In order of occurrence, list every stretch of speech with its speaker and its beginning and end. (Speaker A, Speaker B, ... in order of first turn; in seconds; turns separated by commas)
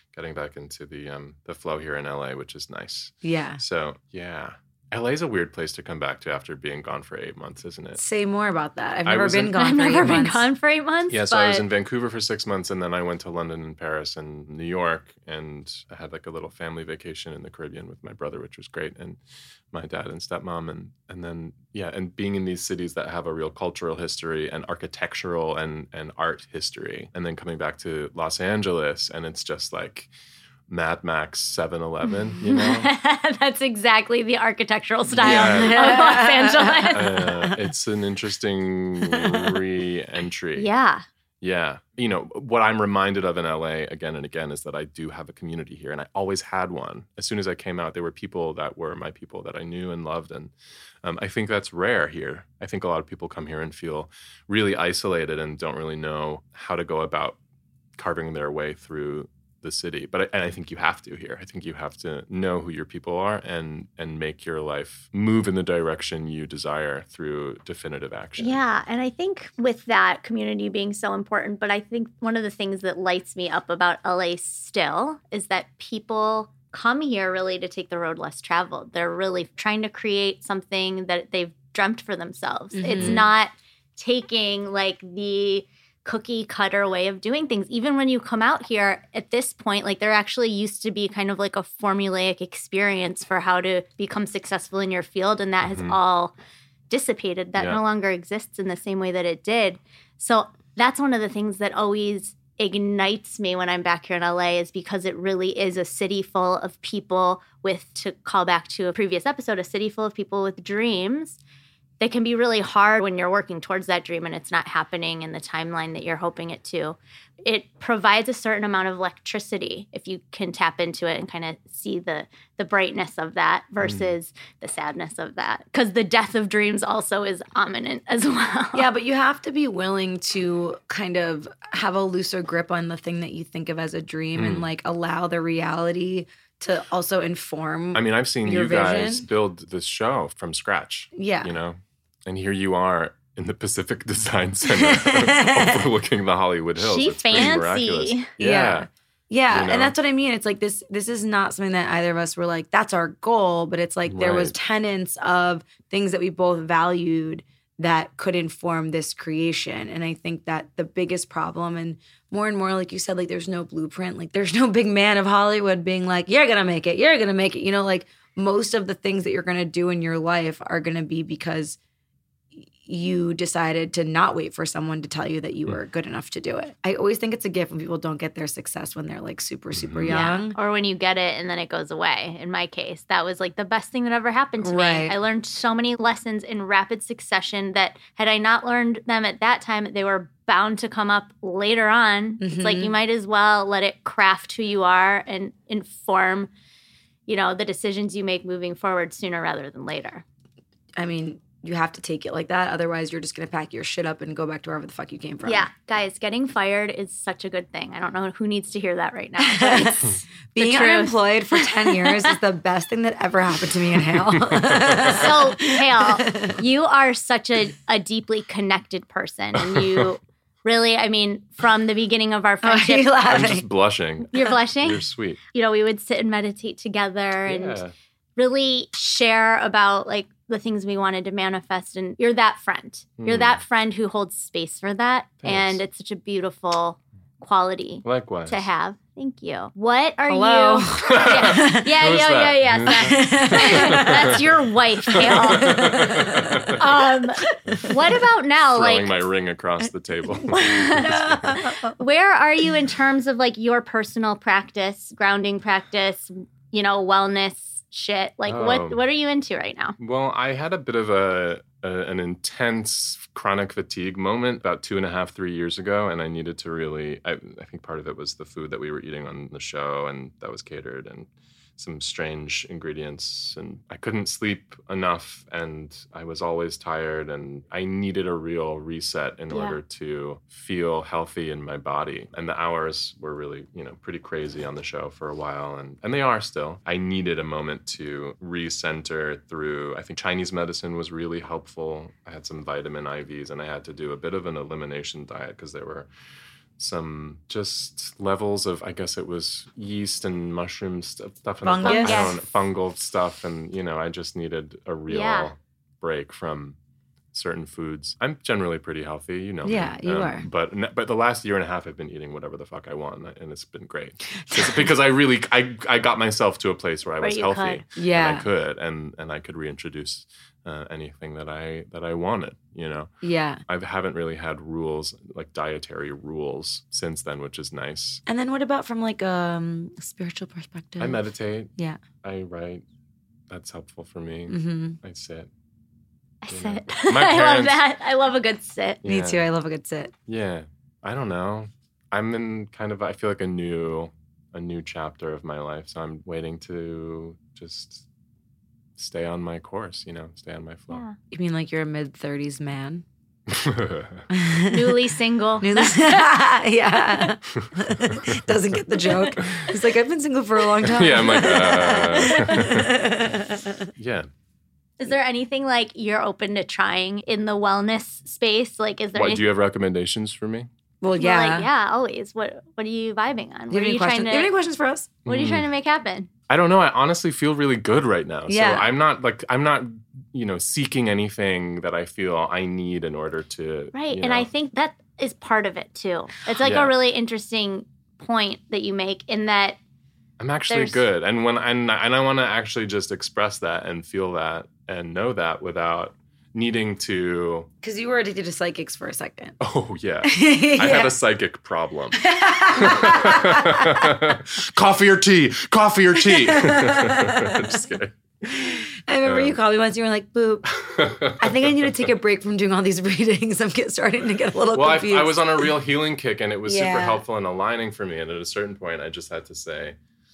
Speaker A: 0.1-8.0, Speaker B: 3.2-3.6, Speaker B: 8.0-10.5, Speaker A: 9.1-9.6, Speaker C: 9.6-11.7, Speaker A: 11.1-19.2, Speaker A: 19.7-30.1, Speaker A: 30.7-32.9, Speaker C: 32.4-37.2, Speaker A: 35.1-36.1, Speaker B: 35.2-37.5, Speaker A: 36.9-40.7, Speaker B: 39.1-39.6, Speaker C: 40.6-41.0, Speaker A: 41.4-50.5, Speaker A: 51.0-57.4, Speaker A: 58.0-68.6, Speaker C: 68.4-96.3, Speaker B: 82.7-83.3, Speaker A: 83.0-83.2, Speaker A: 95.6-96.0, Speaker C: 96.9-111.4, Speaker C: 112.0-128.9, Speaker B: 128.7-139.3, Speaker A: 134.3-134.7, Speaker A: 137.9-148.9, Speaker B: 141.1-141.5, Speaker B: 144.7-145.8, Speaker C: 146.8-148.3, Speaker B: 148.4-171.8, Speaker A: 149.5-149.9, Speaker A: 154.1-154.5, Speaker B: 172.5-180.6, Speaker A: 179.7-180.2, Speaker C: 180.1-196.5, Speaker B: 184.6-185.1, Speaker B: 192.4-192.9, Speaker C: 197.3-200.2, Speaker B: 201.0-205.7, Speaker C: 205.4-212.3, Speaker B: 209.4-216.6, Speaker A: 214.5-215.2, Speaker C: 215.1-223.3, Speaker A: 219.6-220.1, Speaker B: 222.6-223.6, Speaker A: 223.2-225.4, Speaker C: 224.3-225.0, Speaker C: 225.5-227.8, Speaker A: 227.4-227.9, Speaker C: 228.4-246.0, Speaker A: 233.2-233.6, Speaker A: 235.4-235.8, Speaker A: 238.0-238.7, Speaker B: 240.2-241.9, Speaker A: 241.0-244.3, Speaker B: 242.9-244.4, Speaker B: 245.1-246.8, Speaker A: 245.2-246.9, Speaker C: 246.8-249.1, Speaker B: 247.5-247.9, Speaker A: 248.7-251.6, Speaker C: 250.5-260.0, Speaker B: 251.0-252.0, Speaker A: 258.5-259.0, Speaker A: 260.0-296.1, Speaker C: 279.5-279.8, Speaker A: 296.8-306.8, Speaker B: 301.6-302.3, Speaker C: 301.8-302.4, Speaker C: 305.1-305.5, Speaker A: 307.3-323.1, Speaker B: 309.6-310.5, Speaker B: 314.5-314.9, Speaker C: 317.2-317.8, Speaker B: 318.0-318.5, Speaker B: 323.2-323.6, Speaker A: 323.7-328.2, Speaker B: 328.3-331.2, Speaker A: 331.0-331.7, Speaker A: 332.2-332.8, Speaker A: 333.5-335.5, Speaker B: 334.5-335.0, Speaker C: 336.4-339.0, Speaker A: 336.5-337.8, Speaker A: 339.0-339.4, Speaker B: 339.0-340.1, Speaker A: 340.3-348.1, Speaker A: 349.0-351.0, Speaker C: 350.9-351.1, Speaker B: 351.3-353.0, Speaker A: 353.5-354.3, Speaker B: 354.3-355.0, Speaker C: 354.7-356.3, Speaker B: 355.6-363.9, Speaker A: 357.6-358.5, Speaker A: 359.1-359.6, Speaker A: 360.8-363.2, Speaker C: 361.7-362.7, Speaker A: 363.9-364.3, Speaker C: 365.0-369.4, Speaker A: 369.1-370.7, Speaker B: 371.0-371.7, Speaker C: 371.1-374.5, Speaker B: 373.7-375.2, Speaker A: 375.3-375.6, Speaker C: 375.3-376.3, Speaker A: 376.5-384.5, Speaker B: 378.5-378.9, Speaker C: 383.9-389.8, Speaker A: 386.6-386.9, Speaker A: 390.4-397.7, Speaker C: 390.7-391.0, Speaker B: 397.8-399.6, Speaker A: 399.6-408.1, Speaker B: 400.2-401.2, Speaker B: 402.1-404.1, Speaker B: 406.2-407.8, Speaker B: 408.4-410.7, Speaker A: 409.2-409.6, Speaker A: 410.8-412.0, Speaker B: 411.4-415.7, Speaker A: 414.7-420.0, Speaker B: 416.6-417.2